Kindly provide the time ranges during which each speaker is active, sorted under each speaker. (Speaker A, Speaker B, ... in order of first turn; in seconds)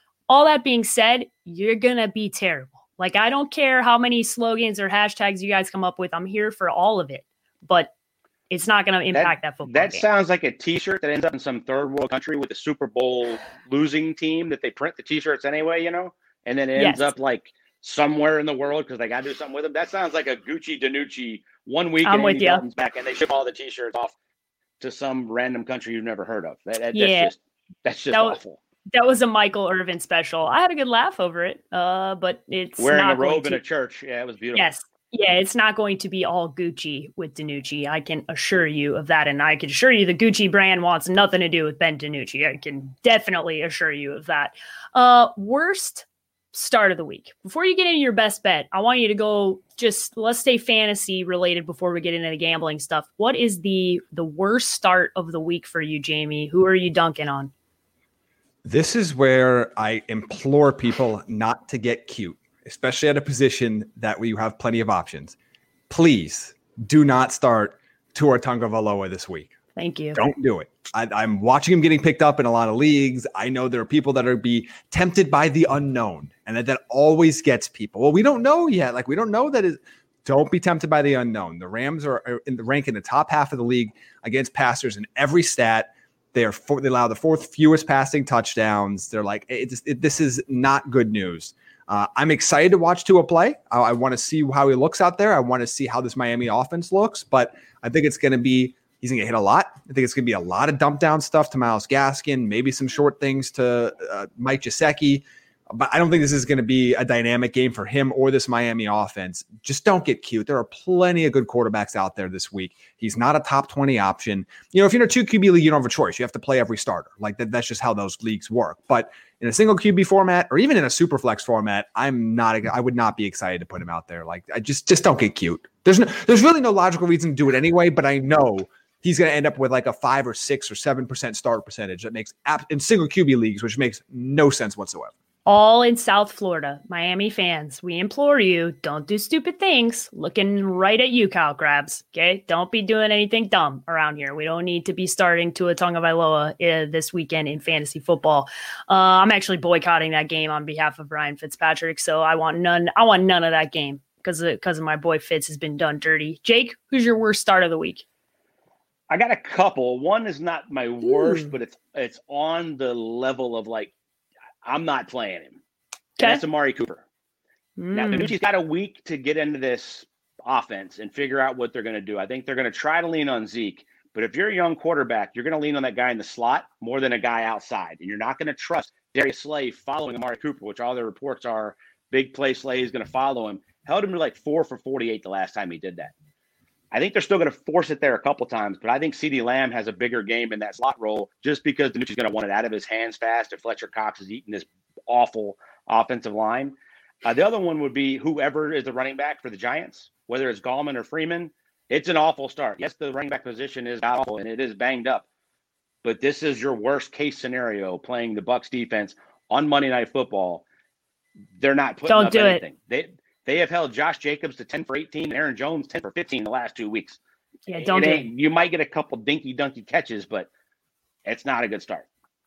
Speaker A: 0.3-7.9, 8.5-10.1, 16.8-17.1, 22.1-22.6, 26.9-27.3, 28.1-28.4, 28.9-33.6, 34.5-57.5, 69.8-70.2, 135.5-158.0, 161.0-161.5, 167.8-168.3, 212.1-212.6, 217.7-218.3
Speaker B: 9.1-24.1, 24.8-28.6, 32.8-34.7, 159.1-163.9, 164.7-165.6, 166.2-167.0, 167.9-186.1, 186.9-205.2, 206.0-210.6, 211.6-217.2, 217.7-220.5, 221.2-222.1
Speaker C: 58.6-65.4, 65.9-69.5, 70.2-135.1